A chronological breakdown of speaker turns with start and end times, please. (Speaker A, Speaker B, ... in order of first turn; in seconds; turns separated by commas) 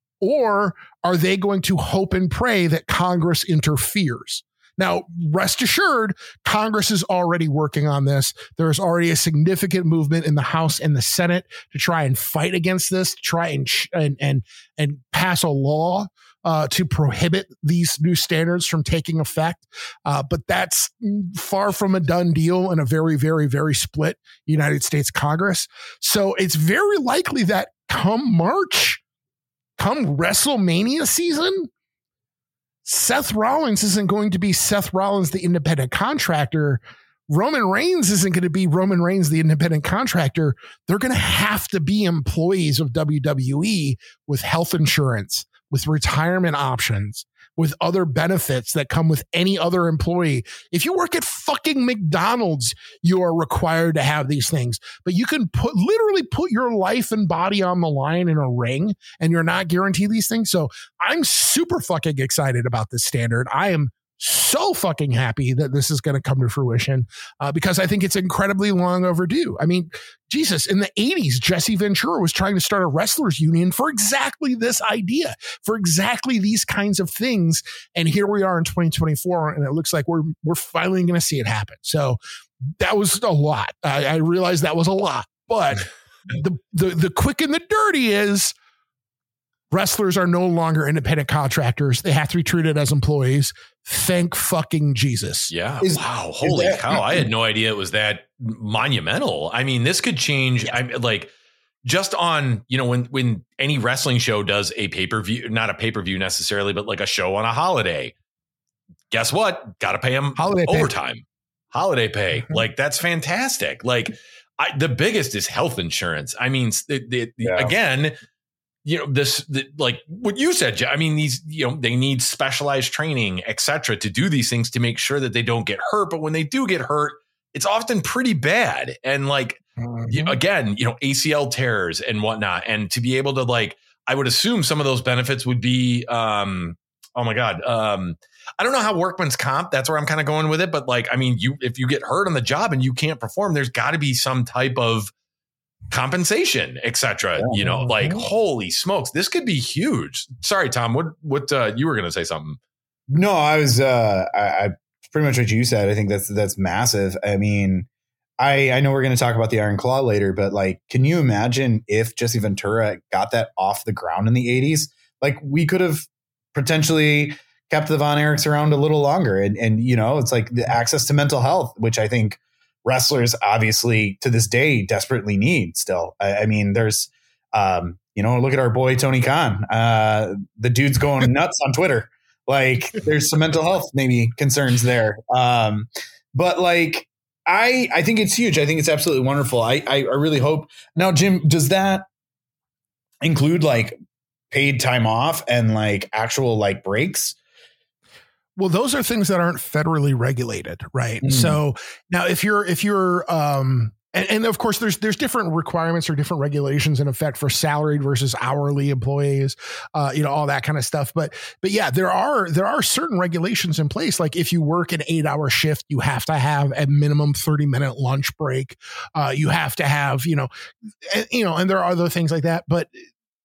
Speaker A: 0.2-29.0, Speaker A: 29.8-31.7, Speaker A: 32.8-88.5, Speaker A: 89.7-95.5, Speaker B: 95.5-101.3, Speaker C: 95.8-97.3, Speaker B: 101.8-108.1, Speaker B: 109.1-118.1, Speaker A: 110.3-110.9, Speaker C: 117.4-117.7, Speaker B: 118.8-145.1, Speaker A: 129.8-130.3, Speaker B: 145.9-152.6, Speaker C: 147.4-148.2, Speaker C: 153.1-157.9, Speaker C: 158.4-192.1, Speaker C: 193.2-193.9, Speaker C: 194.5-197.3, Speaker A: 198.6-220.5, Speaker C: 201.2-201.6, Speaker A: 221.0-223.0